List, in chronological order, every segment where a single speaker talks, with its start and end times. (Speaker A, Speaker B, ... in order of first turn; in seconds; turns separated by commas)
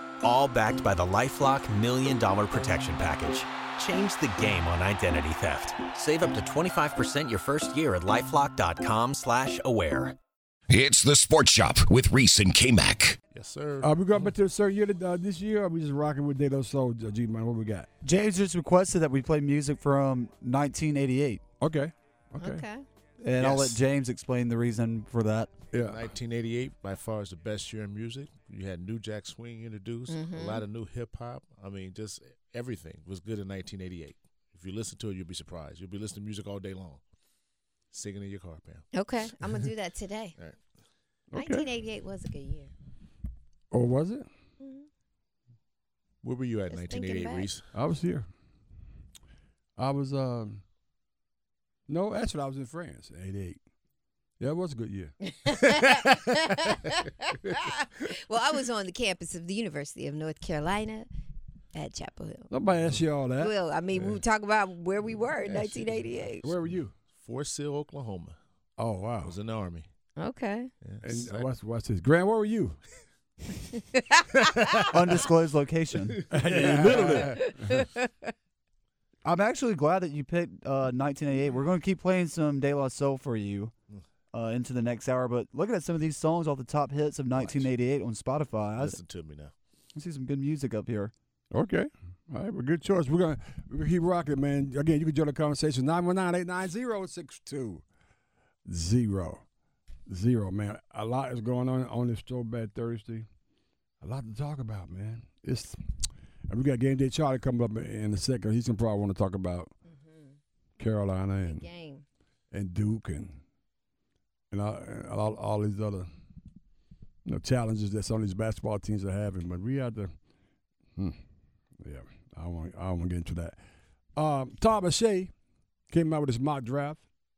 Speaker A: 0.2-10.2, Speaker B: 10.7-13.2, Speaker C: 13.3-14.3, Speaker D: 13.8-17.9, Speaker E: 18.0-21.4, Speaker D: 21.6-22.7, Speaker F: 22.4-22.8, Speaker E: 23.2-25.5, Speaker C: 23.4-23.8, Speaker D: 25.7-26.0, Speaker C: 25.8-37.0, Speaker F: 30.1-30.6, Speaker C: 37.9-38.9, Speaker F: 38.9-40.4, Speaker D: 41.3-41.7, Speaker F: 41.4-42.7, Speaker D: 43.7-44.3, Speaker F: 44.6-44.9, Speaker C: 46.2-47.7, Speaker F: 46.7-47.6, Speaker D: 47.7-48.3, Speaker D: 49.8-50.6, Speaker D: 51.9-53.6, Speaker D: 54.4-55.1, Speaker F: 55.2-61.1, Speaker F: 61.7-62.5, Speaker D: 62.5-63.6, Speaker F: 63.4-66.5, Speaker C: 63.9-64.2, Speaker C: 65.5-66.1, Speaker D: 66.4-66.9, Speaker C: 67.2-68.4, Speaker D: 68.8-69.4, Speaker C: 69.2-69.9, Speaker F: 70.2-70.7, Speaker C: 70.8-71.5, Speaker D: 71.0-72.8, Speaker F: 73.8-74.2, Speaker E: 74.9-76.2, Speaker D: 76.3-77.7, Speaker C: 76.5-77.3, Speaker F: 77.2-78.3, Speaker E: 79.2-83.7, Speaker E: 84.3-89.0, Speaker C: 87.4-87.7, Speaker C: 88.8-89.5, Speaker E: 90.0-91.1, Speaker D: 91.5-97.8, Speaker D: 98.7-99.4, Speaker D: 100.1-103.3, Speaker D: 104.0-105.8, Speaker D: 106.5-109.7, Speaker F: 110.0-110.3, Speaker D: 110.8-111.7, Speaker F: 111.5-112.0, Speaker D: 112.5-113.4, Speaker D: 114.5-116.1, Speaker D: 117.2-120.1, Speaker D: 121.8-123.6, Speaker D: 124.2-125.3, Speaker D: 125.9-127.0